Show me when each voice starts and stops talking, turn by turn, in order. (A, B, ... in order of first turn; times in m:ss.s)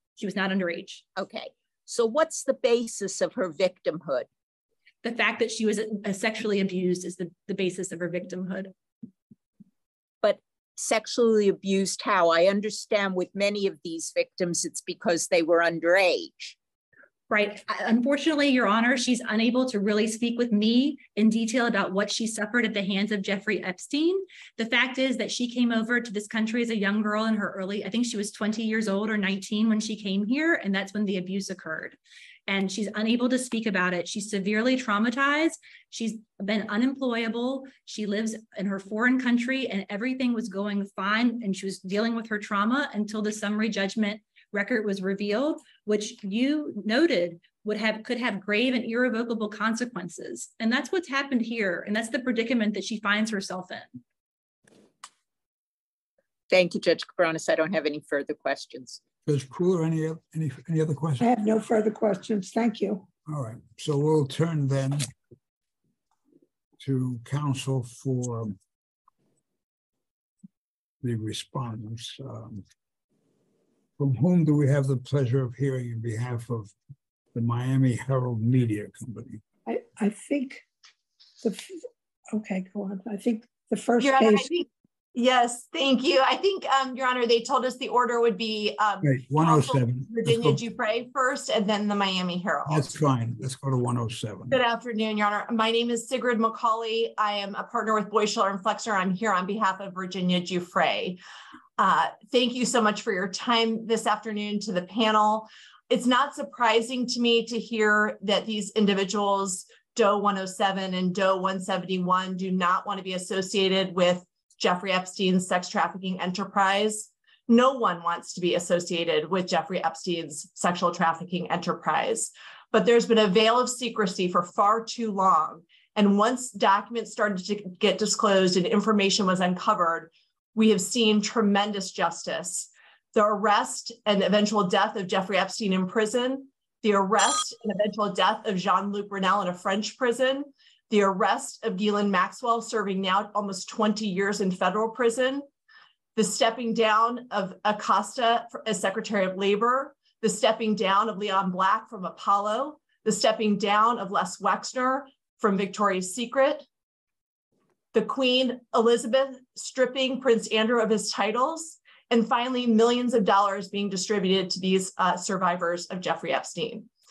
0:00.2-0:01.0 A
0:01.2-0:04.3 B
0:05.0-0:08.7 A
0:10.2-0:16.6 B
0:17.3-0:32.0 A
0:32.5-0:54.0 A
0:56.5-0:59.0 B
0:59.2-1:01.2 C
1:01.2-1:03.1 D
1:03.3-1:05.1 C
1:06.8-1:08.6 C
1:11.0-1:12.6 C
1:14.0-1:16.7 C
1:17.3-1:19.4 C
1:19.6-1:20.6 D
1:21.4-1:24.5 D
1:24.0-1:33.0 E
1:29.0-1:30.6 C
1:32.7-1:34.6 C
1:34.5-1:41.2 E
1:41.8-2:25.4 E
2:26.2-2:36.6 E
2:37.9-2:46.9 E